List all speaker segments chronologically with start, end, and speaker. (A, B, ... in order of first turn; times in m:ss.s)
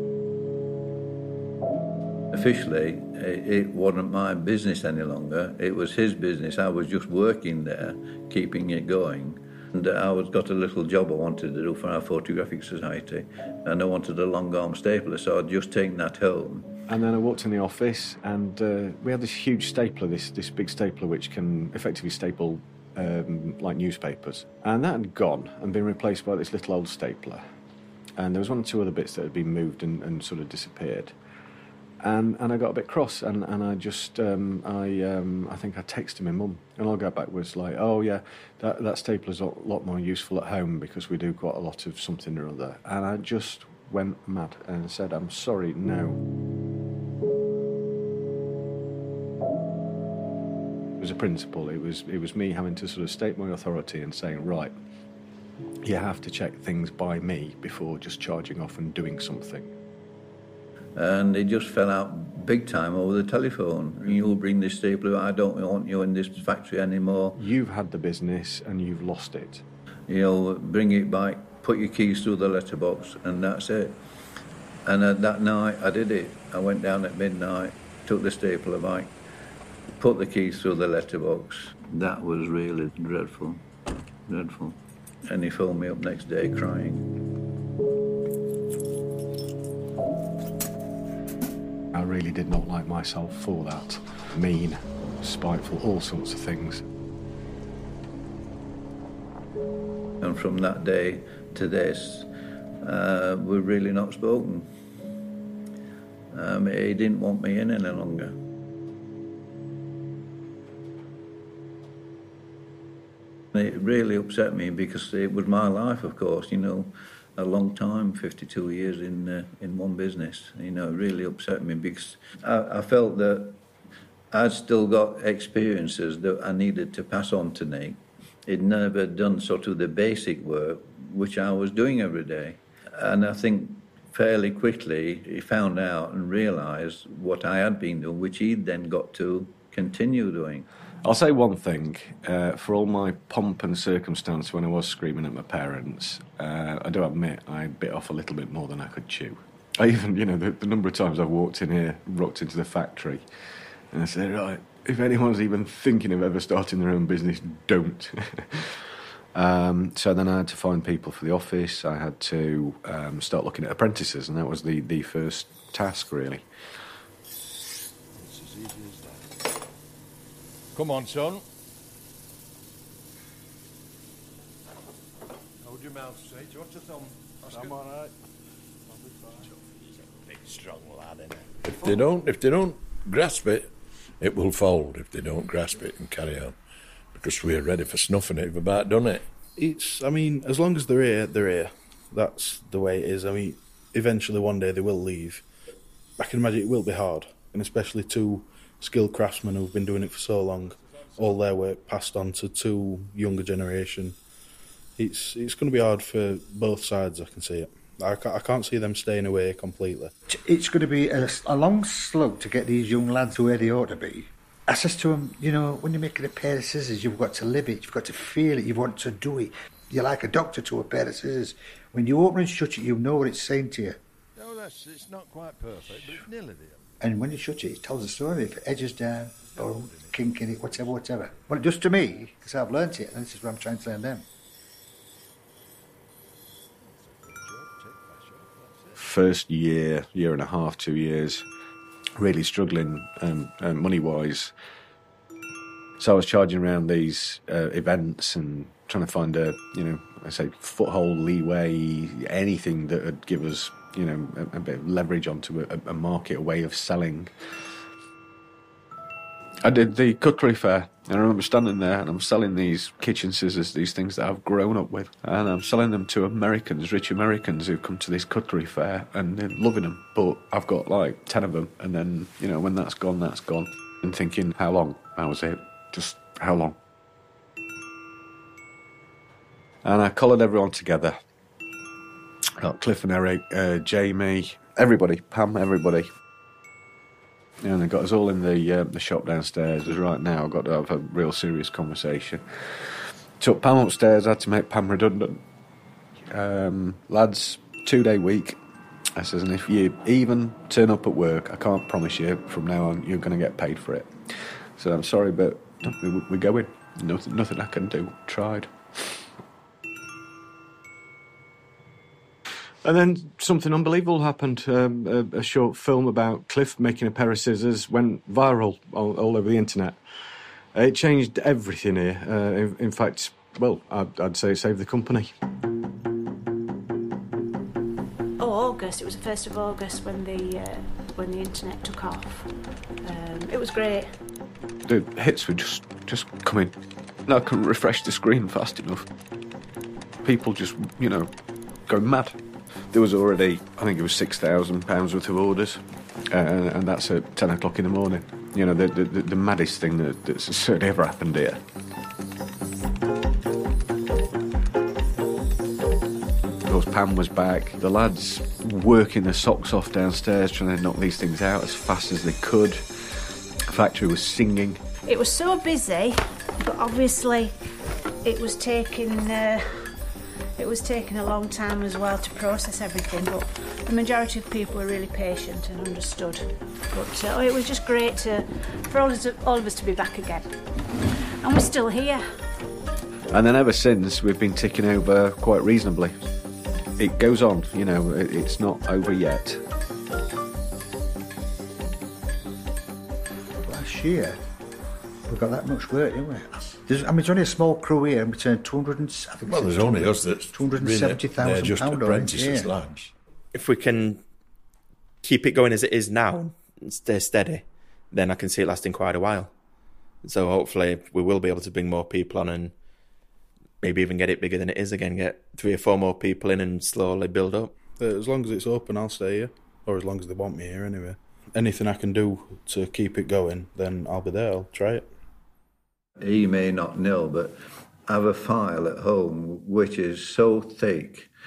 0:02.3-0:16.7 A
0:16.9-0:27.4 B
0:28.2-0:31.1 B
0:32.0-0:46.2 B
0:51.0-0:54.7 B
0:55.8-0:59.7 B
1:01.0-1:07.4 A
1:07.3-1:09.6 B
1:10.1-1:14.0 A
1:14.8-1:19.1 A
1:20.0-1:23.6 A
1:24.3-1:27.1 A
1:31.9-1:36.8 B
1:40.2-1:42.3 A
1:42.8-1:44.7 A
1:46.3-1:48.4 A
1:53.5-2:03.6 A
2:04.3-2:20.6 A
2:21.0-2:33.2 B
2:33.9-2:46.4 B
2:48.2-2:48.9 C
2:50.7-2:51.4 C
3:00.2-3:06.6 C
3:07.1-3:09.2 C
3:09.6-3:15.4 D
3:16.2-3:24.2 D
3:25.0-3:30.1 D
3:30.3-3:44.0 E
3:47.0-3:54.2 E
3:59.0-4:01.4 B
4:02.2-4:04.5 B
4:06.0-4:17.3 B
4:19.6-4:36.8 B
4:39.8-4:41.2 B
4:42.6-4:46.1 B
4:47.6-4:55.4 B
4:56.3-4:58.6 B
4:59.2-5:04.1 B
5:04.8-5:09.2 B
5:12.8-5:20.0 B
5:20.7-5:25.3 B
5:28.4-5:34.2 F
5:34.8-5:39.1 B
5:40.2-5:41.3 B
5:41.9-5:42.4 B
5:42.9-5:51.6 B
5:56.6-6:04.8 B
6:05.0-6:07.6 F
6:08.2-6:09.9 F
6:10.6-6:20.5 F
6:21.4-6:22.2 F
6:23.3-6:26.2 B
6:27.0-6:29.6 B
6:33.6-6:34.4 E
6:35.3-6:42.7 E
6:39.4-6:43.1 C
6:43.5-6:44.2 G
6:45.2-6:49.5 G
6:50.2-6:52.7 G
6:53.8-6:57.8 G
6:57.9-7:05.0 D
7:06.2-7:07.5 A
7:08.1-7:11.3 A